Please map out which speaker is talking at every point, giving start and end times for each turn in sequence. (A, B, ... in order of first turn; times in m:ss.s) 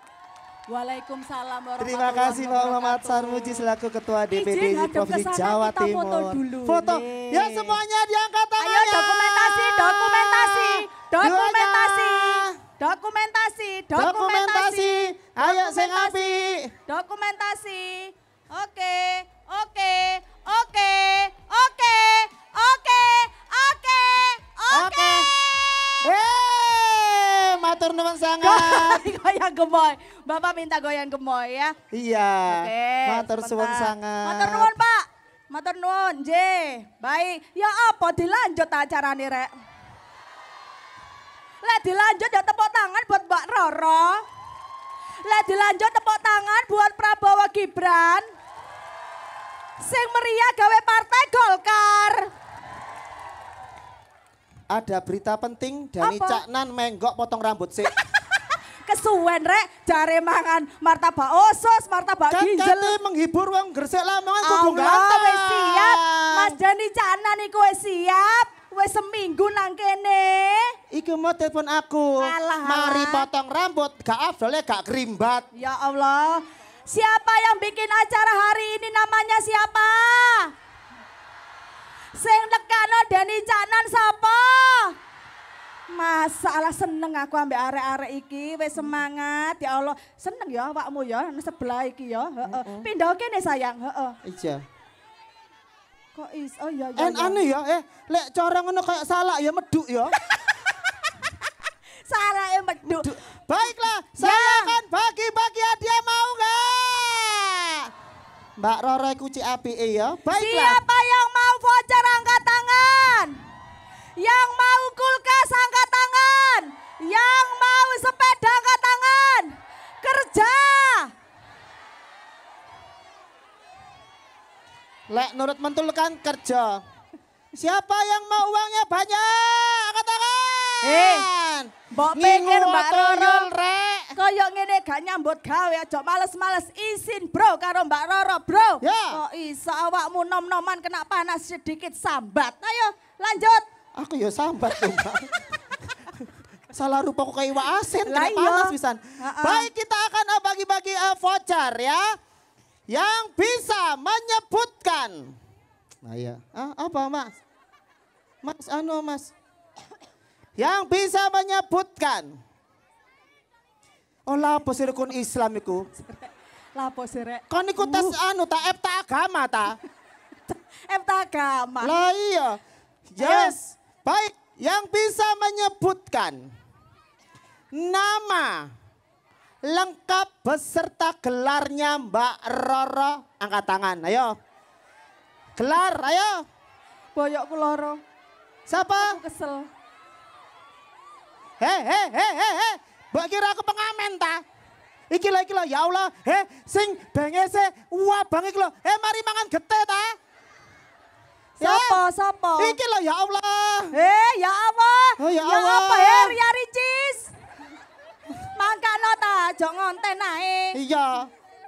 0:00.7-0:03.6 A
0:01.8-0:12.6 B
0:04.4-0:07.8 A
0:08.6-0:16.3 A
0:14.0-0:16.7 B
0:16.9-0:25.4 A
0:24.7-0:25.3 B
0:26.0-0:29.0 B
0:28.4-0:31.8 A
0:31.9-0:34.7 B
0:32.5-0:39.5 A
0:41.6-0:44.2 A
0:45.2-0:48.3 A
0:49.8-0:52.3 A
0:54.7-0:57.9 B
0:56.0-0:56.4 A
0:58.8-1:03.0 A
1:02.3-1:06.6 B
1:04.4-1:10.7 A
1:10.9-1:15.4 B
1:12.2-1:13.3 A
1:15.6-1:20.5 A
1:22.2-1:24.9 A
1:25.9-1:34.2 A
1:32.5-1:32.9 B
1:34.2-1:34.6 B
1:36.1-1:37.4 A
1:37.0-1:40.1 B
1:42.1-1:43.1 A
1:42.8-1:47.9 B
1:44.2-1:44.7 A
1:48.6-1:50.8 B
1:50.3-1:53.3 A
1:54.2-2:01.1 A
2:05.1-2:06.8 B
2:07.5-2:14.1 B
2:10.8-2:11.3 A
2:11.9-2:13.5 A
2:14.2-2:23.6 A
2:18.8-2:19.2 B
2:24.0-2:25.4 B
2:26.2-2:32.0 B
2:28.0-2:29.7 A
2:32.9-2:35.3 B
2:36.0-2:37.3 B
2:38.4-2:39.3 B
2:40.6-2:42.4 B
2:44.3-2:45.9 B
2:46.1-2:48.2 A
2:47.5-2:49.8 B
2:50.5-2:51.9 A
2:51.8-2:56.4 B
2:53.2-2:53.6 A
2:57.7-2:58.7 B
2:59.6-3:04.3 B
3:05.6-3:06.4 B
3:07.1-3:08.0 A
3:08.7-3:09.2 B
3:08.9-3:09.7 A
3:11.6-3:14.4 B
3:15.1-3:20.2 B
3:21.6-3:22.0 B
3:21.6-3:22.8 A
3:22.6-3:23.9 B
3:23.9-3:27.3 A
3:25.2-3:26.4 B
3:28.6-3:30.8 A
3:30.7-3:31.3 B